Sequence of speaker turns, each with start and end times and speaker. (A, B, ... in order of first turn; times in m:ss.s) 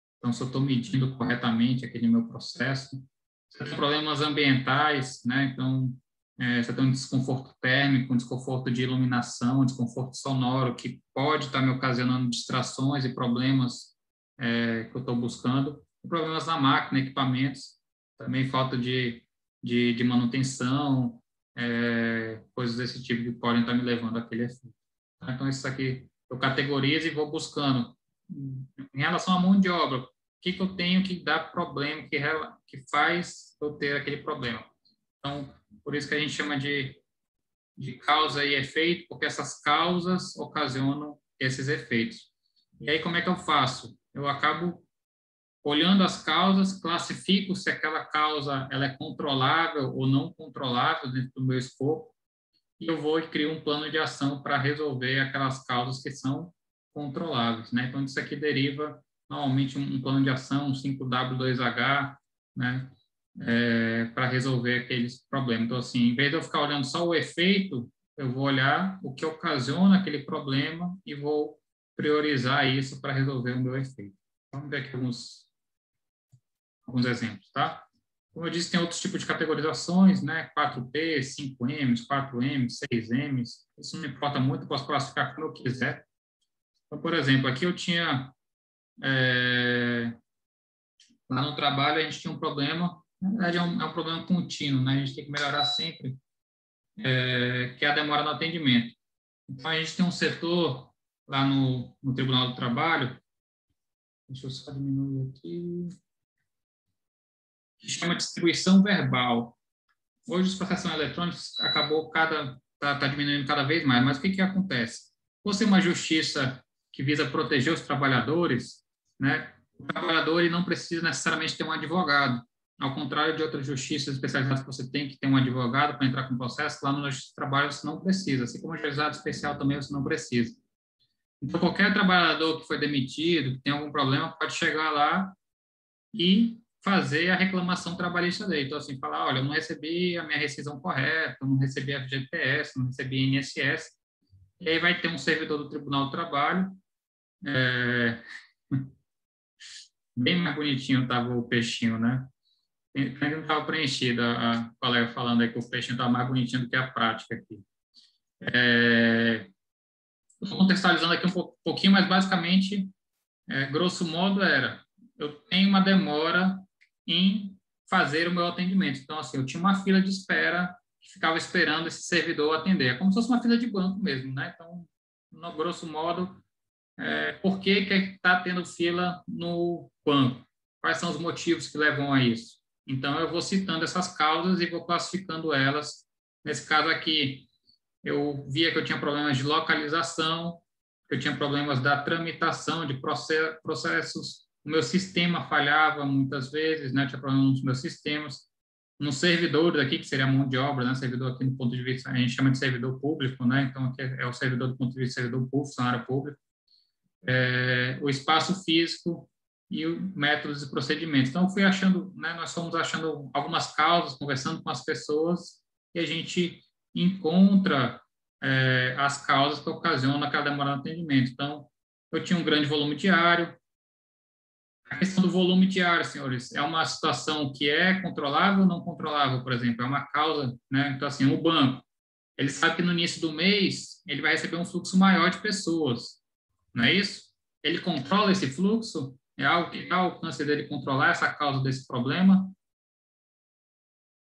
0:00.2-0:34.7 A
0:35.2-0:37.0 A
0:37.8-0:42.3 A
0:42.8-0:44.8 A
0:45.6-0:52.1 A
0:52.8-1:15.5 A
1:16.9-1:26.0 A
1:26.9-1:28.3 A
1:29.0-1:30.2 A
1:31.3-1:36.2 A
1:37.0-1:39.0 A
1:39.5-1:43.2 A
1:44.3-1:46.0 A
1:47.8-1:49.6 A
1:50.3-2:10.6 A
2:11.4-2:15.4 A
2:16.1-2:24.0 A
2:24.6-2:26.8 A
2:27.4-2:28.9 A
2:30.2-2:32.3 A
2:32.9-2:37.6 A
2:38.4-2:39.5 A
2:40.4-2:42.9 A
2:43.5-2:56.4 A
2:57.0-3:07.5 A
3:08.0-3:18.5 A
3:19.0-3:26.4 A
3:27.2-3:43.6 A
3:44.9-3:51.8 A
3:52.4-3:56.2 A
3:56.7-4:02.6 A